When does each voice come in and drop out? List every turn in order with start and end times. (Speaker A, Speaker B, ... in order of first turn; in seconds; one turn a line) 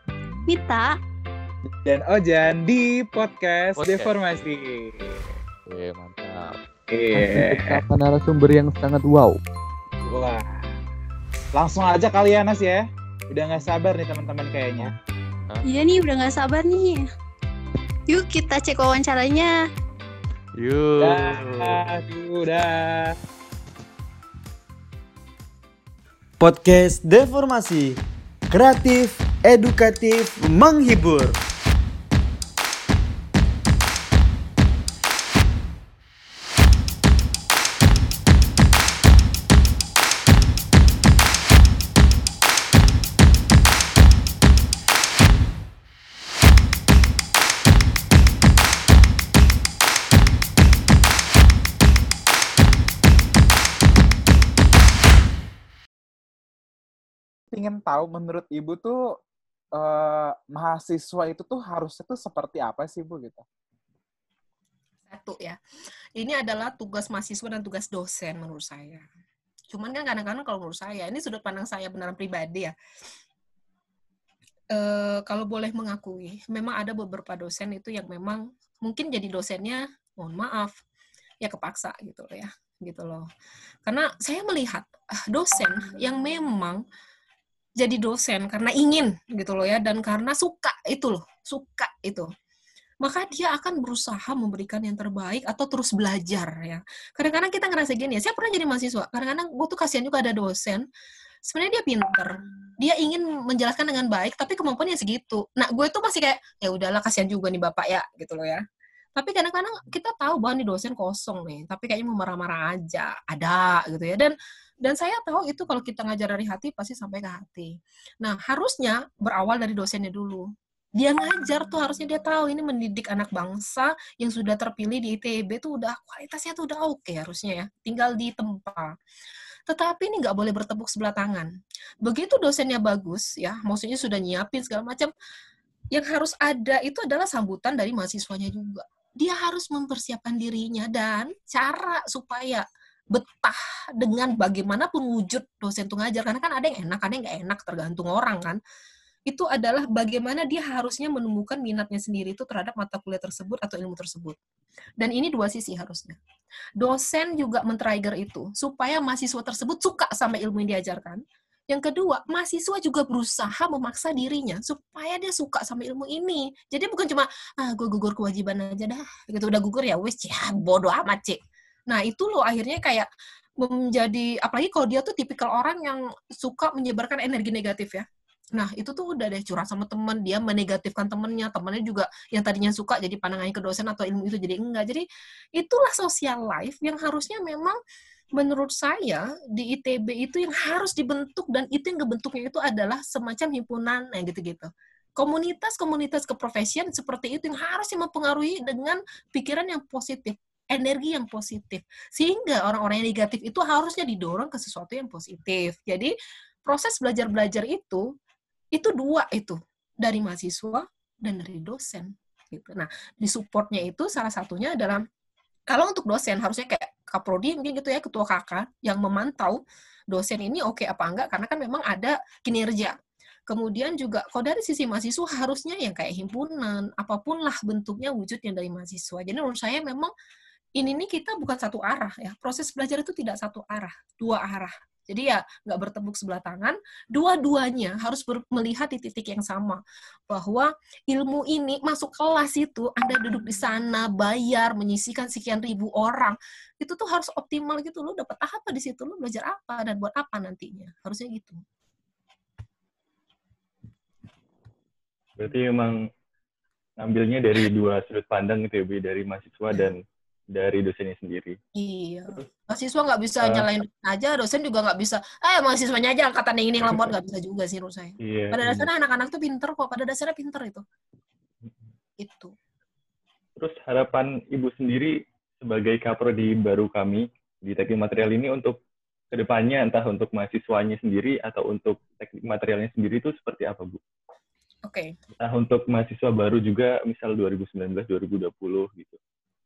Speaker A: 0.5-0.9
Speaker B: 1.8-5.2
Speaker C: 3.7-4.1
Speaker C: 5.7-6.6
Speaker B: 6.9-7.8
Speaker C: 7.1-9.4
Speaker B: 10.1-10.7
Speaker B: 11.5-14.9
Speaker A: 15.6-17.0
Speaker A: 18.1-19.6
Speaker C: 20.5-21.9
Speaker B: 21.0-23.2
Speaker D: 26.4-31.4
Speaker B: 57.5-59.0
Speaker B: 59.8-63.4
Speaker E: 65.1-65.6
Speaker E: 66.2-69.0
Speaker E: 69.7-72.7
Speaker E: 74.7-80.7
Speaker E: 81.4-83.2
Speaker E: 83.8-86.8
Speaker E: 87.8-92.3
Speaker E: 93.0-100.8
Speaker E: 101.5-108.6
Speaker E: 109.2-120.5
Speaker E: 121.0-128.9
Speaker E: 129.7-131.5
Speaker E: 132.0-135.1
Speaker E: 135.9-148.6
Speaker E: 149.3-154.3
Speaker E: 155.0-156.2
Speaker E: 156.8-171.4
Speaker E: 171.9-173.1
Speaker E: 173.6-178.0
Speaker E: 178.5-185.0
Speaker E: 185.6-187.8
Speaker E: 188.4-206.1
Speaker E: 206.7-208.0
Speaker E: 208.7-215.0
Speaker E: 215.7-222.9
Speaker E: 223.5-230.1
Speaker E: 230.8-251.6
Speaker F: 255.4-255.9
Speaker F: 257.0-261.6
Speaker E: 261.8-270.8
Speaker F: 263.4-263.7
Speaker F: 266.8-267.1
Speaker F: 268.2-268.9
Speaker E: 272.2-272.5
Speaker F: 273.6-278.8
Speaker F: 279.3-284.0
Speaker F: 285.4-289.2